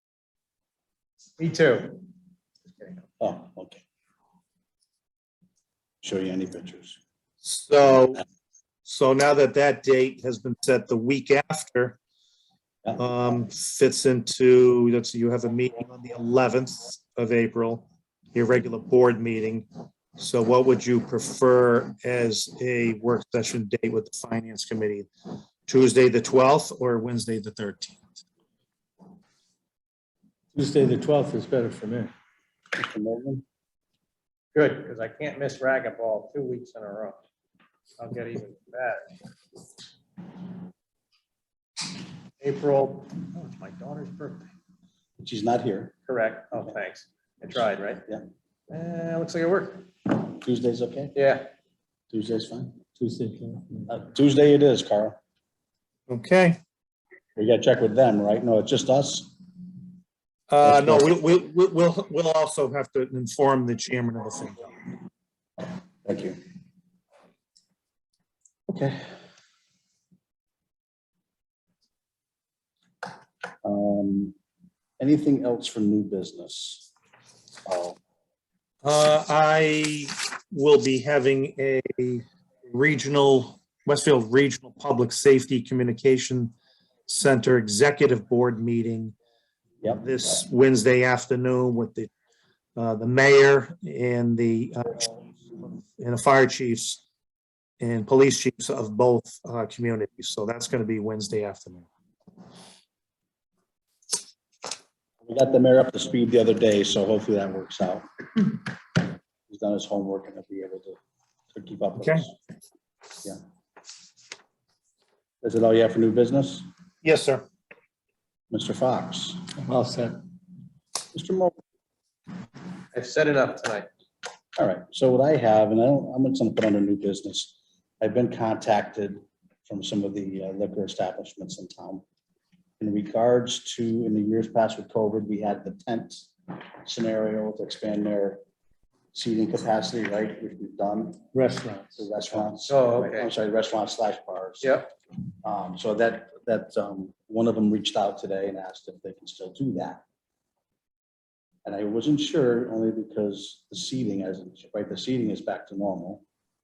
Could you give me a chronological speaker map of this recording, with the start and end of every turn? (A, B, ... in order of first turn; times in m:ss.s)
0:01.4-0:02.0 A
0:03.2-0:03.8 B
0:06.0-0:07.0 B
0:07.4-0:08.2 C
0:08.8-0:12.0 C
0:13.0-0:19.7 C
0:20.2-0:25.1 C
0:25.7-0:28.0 C
0:30.5-0:32.1 D
0:32.7-0:33.4 B
0:34.6-0:37.2 A
0:38.0-0:39.0 A
0:42.4-0:44.5 A
0:45.2-0:46.0 B
0:46.1-0:48.0 A
0:48.7-0:49.9 A
0:50.2-0:51.2 B
0:51.2-0:51.5 A
0:52.1-0:52.8 B
0:53.0-0:53.9 D
0:53.9-0:55.2 B
0:56.1-0:56.6 C
0:57.4-0:59.3 B
1:00.5-1:04.6 C
1:00.6-1:01.1 B
1:06.0-1:06.4 B
1:08.7-1:09.0 B
1:13.6-1:14.3 B
1:15.0-1:16.9 B
1:17.6-1:18.0 B
1:18.8-1:26.6 C
1:27.1-1:29.2 C
1:29.9-1:32.1 C
1:32.8-1:37.0 C
1:37.8-1:41.9 C
1:45.3-1:48.1 B
1:49.5-1:51.0 B
1:51.5-1:52.3 B
1:52.0-1:52.3 C
1:55.4-1:56.7 B
1:57.0-1:57.4 C
1:58.5-1:59.4 B
1:59.6-2:00.2 D
2:01.1-2:01.5 B
2:02.9-2:03.9 A
2:04.6-2:12.0 B
2:12.8-2:16.3 B
2:16.8-2:18.4 B
2:19.1-2:21.2 B
2:21.3-2:22.1 D
2:22.0-2:24.8 B
2:22.7-2:23.3 A
2:24.6-2:24.9 A
2:25.4-2:30.0 B
2:31.6-2:36.2 B